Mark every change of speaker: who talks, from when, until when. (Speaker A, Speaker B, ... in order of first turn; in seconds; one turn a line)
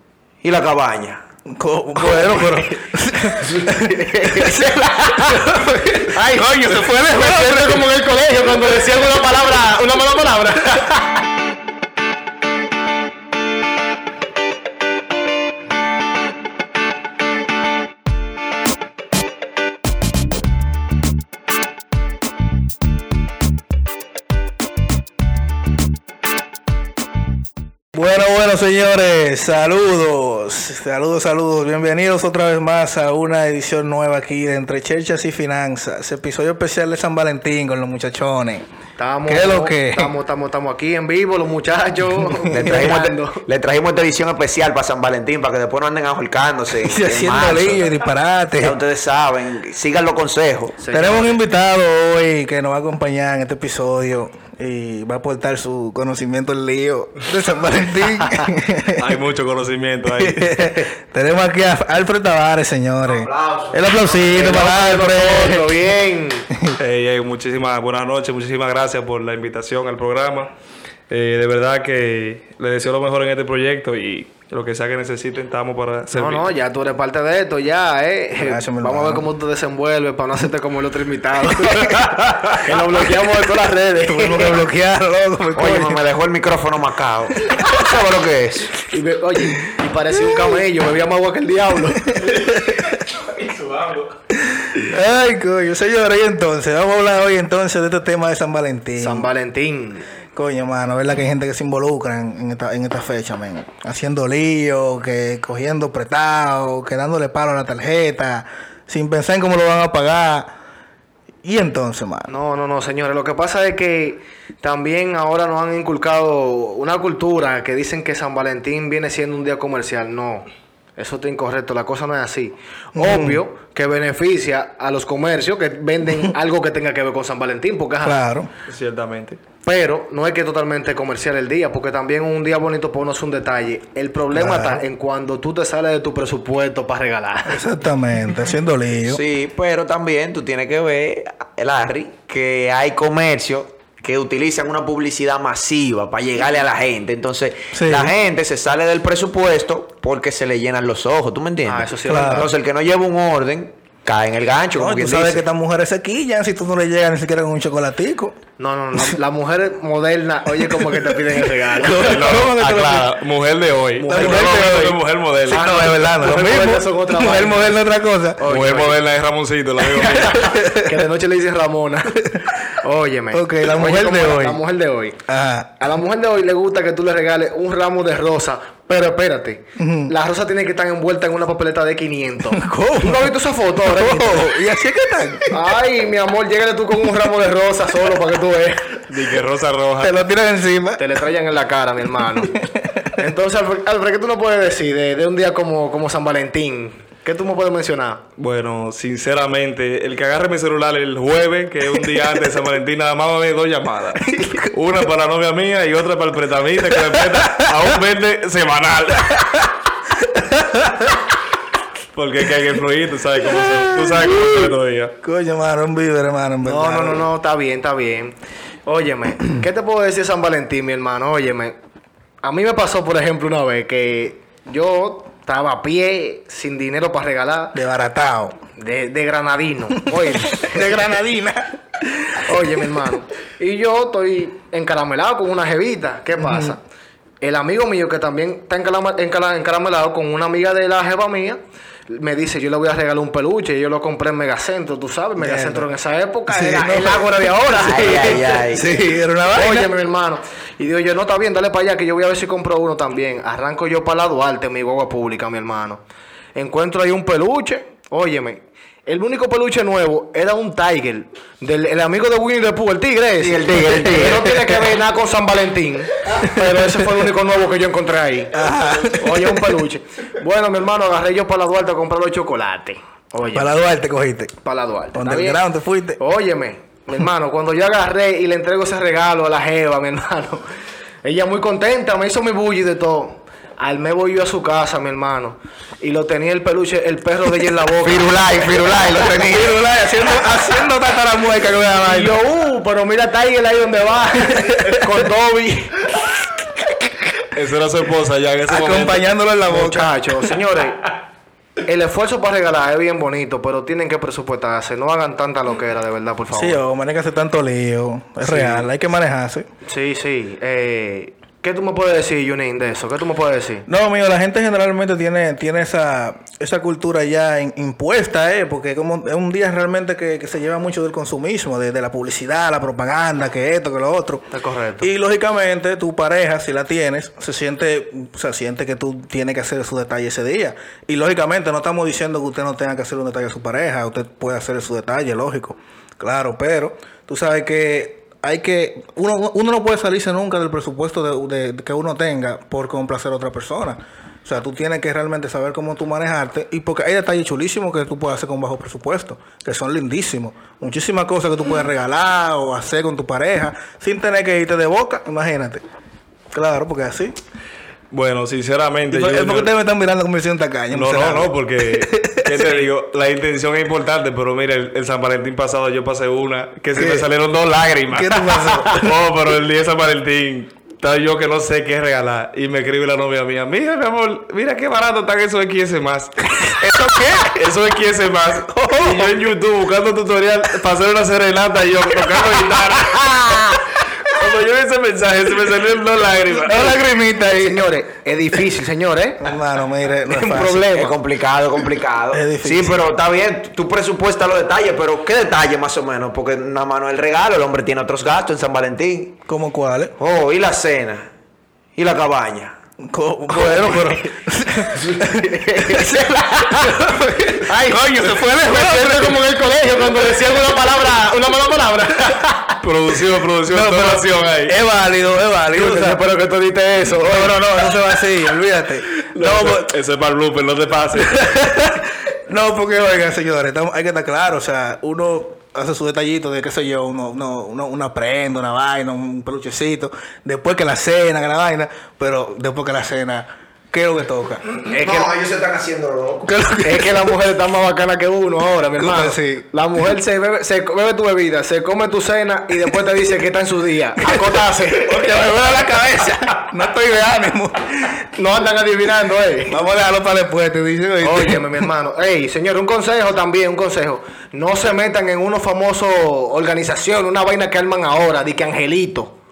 Speaker A: 0.4-1.2
Speaker B: 1.5-7.8
Speaker C: 1.9-11.2
Speaker B: 27.9-38.6
Speaker C: 39.0-43.4
Speaker B: 39.3-40.1
Speaker B: 42.5-42.8
Speaker A: 42.5-47.9
Speaker B: 46.8-48.8
Speaker A: 48.6-50.8
Speaker C: 50.8-51.4
Speaker B: 50.9-59.2
Speaker D: 58.9-60.7
Speaker B: 60.1-65.8
Speaker A: 63.0-64.2
Speaker C: 64.3-66.5
Speaker B: 66.5-66.8
Speaker D: 66.8-70.5
Speaker D: 71.1-76.5
Speaker C: 76.1-84.6
Speaker B: 78.4-79.3
Speaker B: 84.0-86.0
Speaker A: 85.5-88.7
Speaker B: 87.4-87.7
Speaker C: 88.8-92.4
Speaker B: 92.2-92.9
Speaker D: 92.9-94.1
Speaker B: 94.7-99.3
Speaker C: 99.0-100.1
Speaker B: 100.3-110.5
Speaker B: 111.4-112.3
Speaker C: 112.3-128.2
Speaker B: 122.9-123.4
Speaker B: 128.0-128.5
Speaker D: 128.7-129.4
Speaker C: 129.6-137.6
Speaker B: 134.3-134.8
Speaker B: 137.5-139.2
Speaker A: 139.0-155.4
Speaker B: 147.7-148.1
Speaker C: 151.6-152.5
Speaker B: 152.1-152.5
Speaker B: 154.8-158.4
Speaker C: 158.6-162.3
Speaker B: 160.5-161.2
Speaker B: 161.8-163.2
Speaker D: 161.9-165.7
Speaker B: 164.0-168.4
Speaker C: 164.0-164.7
Speaker C: 165.5-167.8
Speaker C: 168.4-169.0
Speaker D: 168.5-170.5
Speaker C: 169.8-175.2
Speaker B: 170.5-170.8
Speaker B: 173.3-174.6
Speaker B: 175.3-175.8
Speaker C: 175.8-184.5
Speaker B: 179.8-180.1
Speaker B: 182.5-183.3
Speaker B: 183.8-185.5
Speaker C: 185.5-189.0
Speaker D: 189.1-190.1
Speaker B: 190.0-191.0
Speaker C: 191.0-192.6
Speaker B: 192.4-193.2
Speaker C: 193.2-198.2
Speaker D: 198.4-209.7
Speaker B: 204.2-204.7
Speaker B: 210.3-211.0
Speaker D: 212.1-215.1
Speaker B: 214.1-214.5
Speaker B: 215.2-217.3
Speaker C: 216.6-221.7
Speaker C: 222.4-227.7
Speaker B: 227.7-228.6
Speaker C: 228.8-230.9
Speaker B: 230.3-233.0
Speaker C: 232.4-236.8
Speaker B: 236.3-236.7
Speaker C: 237.4-248.7
Speaker B: 245.4-245.9
Speaker B: 246.5-249.9
Speaker A: 247.7-248.9
Speaker C: 249.5-256.0
Speaker C: 256.5-268.5
Speaker A: 263.4-264.5
Speaker B: 268.5-269.7
Speaker C: 269.2-273.7
Speaker B: 273.5-274.5
Speaker C: 274.6-275.6
Speaker B: 275.1-276.2
Speaker C: 276.2-280.6
Speaker C: 281.2-288.4
Speaker A: 288.0-289.7
Speaker B: 289.2-292.3
Speaker C: 292.0-296.1
Speaker D: 297.5-299.2
Speaker B: 298.7-300.4
Speaker C: 299.7-301.1
Speaker C: 301.8-306.8
Speaker B: 306.5-309.6
Speaker C: 308.4-308.9
Speaker C: 309.9-313.8
Speaker B: 313.9-324.5
Speaker C: 324.5-325.1
Speaker B: 325.0-355.8
Speaker B: 356.5-357.3
Speaker D: 358.1-359.7
Speaker B: 359.1-362.9
Speaker D: 360.9-376.5
Speaker B: 366.9-367.3
Speaker B: 368.1-369.1
Speaker B: 376.8-377.5
Speaker D: 377.5-387.0
Speaker B: 378.7-379.4
Speaker B: 386.6-387.8
Speaker C: 386.7-389.4
Speaker B: 389.4-390.9
Speaker C: 390.3-391.1
Speaker A: 390.9-399.4
Speaker B: 392.3-393.0
Speaker B: 399.5-400.1
Speaker A: 400.2-401.3
Speaker A: 401.9-402.7
Speaker B: 403.1-409.4
Speaker C: 403.5-412.8
Speaker D: 412.8-414.7
Speaker B: 413.7-416.2
Speaker C: 415.7-418.2
Speaker B: 417.2-419.9
Speaker D: 419.3-421.4
Speaker B: 421.2-434.6
Speaker C: 434.9-435.3
Speaker A: 434.9-436.4
Speaker B: 436.4-437.4
Speaker C: 436.8-445.3
Speaker B: 439.0-439.6
Speaker B: 445.0-448.2
Speaker C: 448.4-449.8
Speaker B: 449.6-451.9
Speaker C: 451.2-459.3